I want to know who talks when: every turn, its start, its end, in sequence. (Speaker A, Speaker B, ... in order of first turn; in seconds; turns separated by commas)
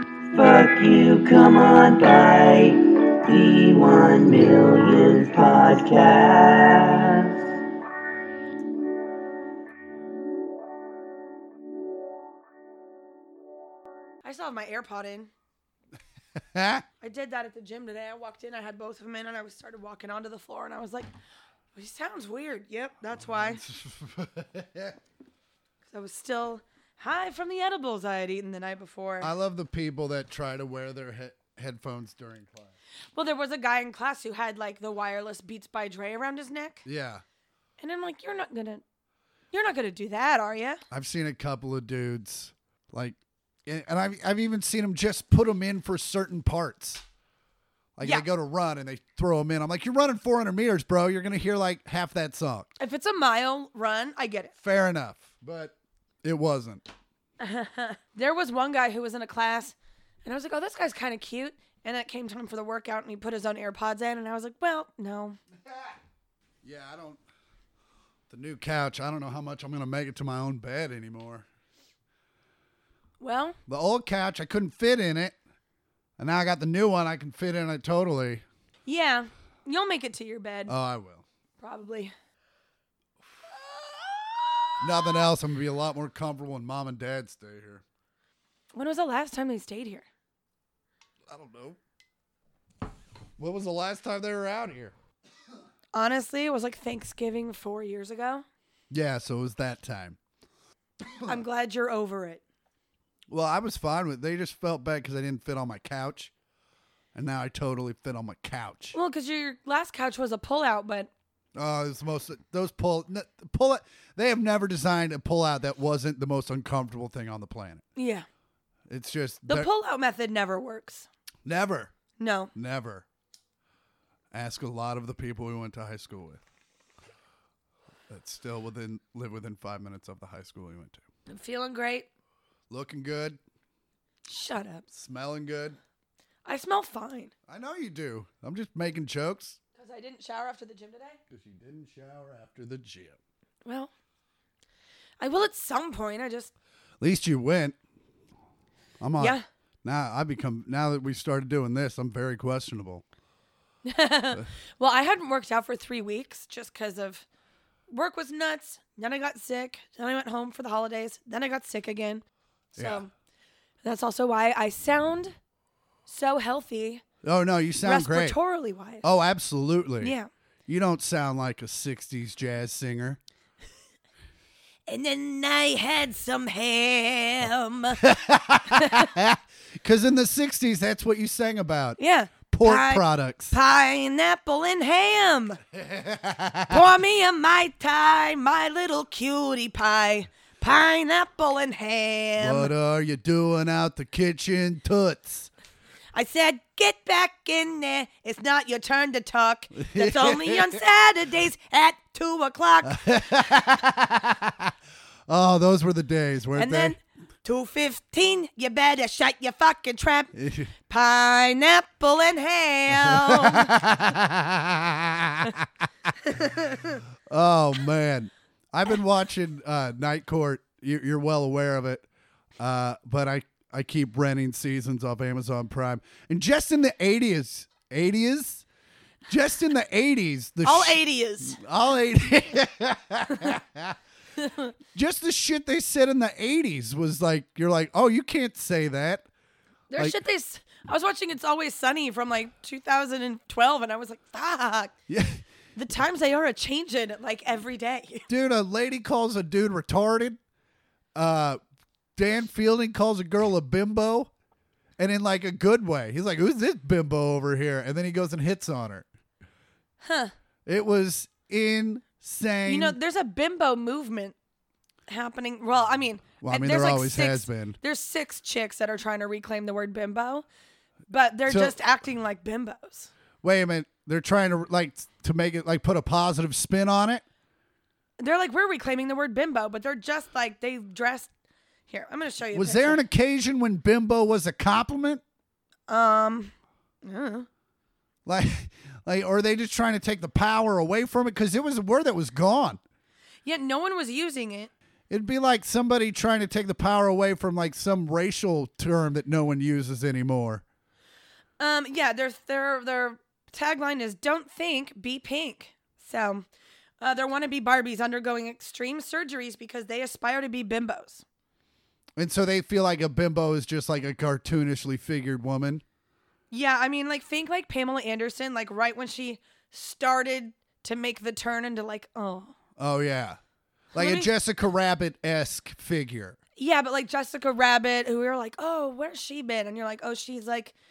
Speaker A: 0.3-7.4, Speaker B: 14.2-15.3, Speaker C: 16.4-16.8, Speaker B: 17.0-21.1, Speaker B: 21.7-23.6, Speaker C: 23.2-25.0, Speaker B: 25.9-29.3, Speaker C: 29.2-32.7, Speaker B: 33.1-36.8, Speaker C: 36.8-37.2, Speaker B: 37.8-38.8, Speaker B: 39.5-40.8, Speaker C: 40.9-47.0, Speaker C: 48.0-52.7, Speaker B: 52.8-54.5, Speaker C: 54.6-56.9, Speaker B: 57.4-65.4, Speaker C: 66.6-67.2, Speaker C: 68.3-71.5, Speaker B: 73.2-73.6, Speaker C: 73.7-75.3, Speaker C: 76.2-78.4, Speaker B: 78.8-80.7, Speaker C: 80.7-81.2, Speaker B: 81.6-82.1, Speaker B: 83.6-85.2, Speaker C: 84.8-87.8, Speaker B: 88.7-90.0, Speaker C: 91.3-91.8, Speaker C: 93.4-94.9, Speaker B: 95.9-98.4, Speaker C: 98.9-100.2, Speaker C: 101.1-101.4, Speaker B: 101.2-102.4, Speaker C: 103.3-106.3, Speaker C: 107.1-109.0, Speaker B: 108.9-111.1, Speaker C: 111.5-117.8, Speaker B: 117.9-118.2, Speaker C: 118.9-119.7, Speaker B: 119.5-121.1, Speaker C: 121.4-121.9, Speaker B: 122.2-122.5, Speaker C: 122.5-123.0, Speaker C: 124.3-126.4, Speaker C: 128.1-131.0, Speaker B: 131.3-132.1, Speaker C: 132.7-133.4, Speaker B: 134.2-134.9, Speaker C: 134.9-135.8, Speaker B: 136.4-137.3, Speaker C: 137.5-139.6, Speaker B: 139.8-141.2, Speaker C: 141.3-143.2, Speaker B: 143.6-143.9, Speaker B: 145.2-146.5, Speaker C: 147.0-147.8, Speaker C: 149.0-153.0, Speaker B: 149.2-149.4, Speaker B: 153.8-157.2, Speaker B: 157.9-162.2, Speaker C: 162.8-163.0, Speaker B: 162.8-163.1, Speaker B: 163.8-165.3, Speaker B: 166.1-167.0, Speaker C: 167.2-168.4, Speaker B: 167.8-169.1, Speaker C: 169.0-170.2, Speaker B: 170.0-170.3, Speaker C: 170.7-173.2, Speaker B: 174.9-178.0, Speaker C: 178.0-182.0, Speaker B: 178.7-179.1, Speaker B: 182.0-185.6, Speaker C: 182.5-183.5, Speaker C: 185.7-186.9, Speaker B: 186.7-192.7, Speaker C: 192.4-195.5, Speaker B: 196.1-203.0, Speaker C: 199.8-200.8, Speaker C: 202.8-204.7, Speaker C: 205.3-207.0, Speaker B: 206.6-210.3, Speaker C: 210.3-210.7, Speaker B: 210.9-213.8, Speaker C: 212.9-215.9, Speaker B: 216.3-217.0, Speaker C: 217.3-222.1, Speaker C: 222.6-228.6, Speaker C: 229.3-234.0, Speaker B: 230.6-231.6, Speaker B: 234.4-234.7, Speaker C: 234.9-239.2, Speaker B: 239.9-244.9, Speaker C: 245.1-245.4, Speaker B: 245.8-248.3, Speaker C: 248.3-250.4, Speaker C: 251.1-251.6, Speaker C: 252.2-254.3, Speaker C: 255.0-259.1, Speaker B: 260.0-260.3, Speaker C: 260.6-262.9, Speaker B: 262.6-264.3, Speaker B: 265.1-270.4, Speaker C: 266.4-267.8, Speaker B: 271.1-273.1, Speaker C: 271.5-271.8, Speaker C: 273.4-277.2, Speaker B: 278.2-281.3, Speaker B: 281.9-283.0, Speaker C: 282.5-285.2, Speaker B: 285.9-287.5, Speaker C: 288.2-292.8, Speaker B: 293.4-294.7, Speaker C: 295.1-300.6, Speaker B: 301.6-306.4, Speaker B: 307.0-311.2, Speaker C: 312.1-315.8, Speaker B: 316.5-322.5, Speaker C: 322.8-323.4, Speaker C: 323.9-326.4, Speaker B: 323.9-324.3, Speaker B: 326.6-330.7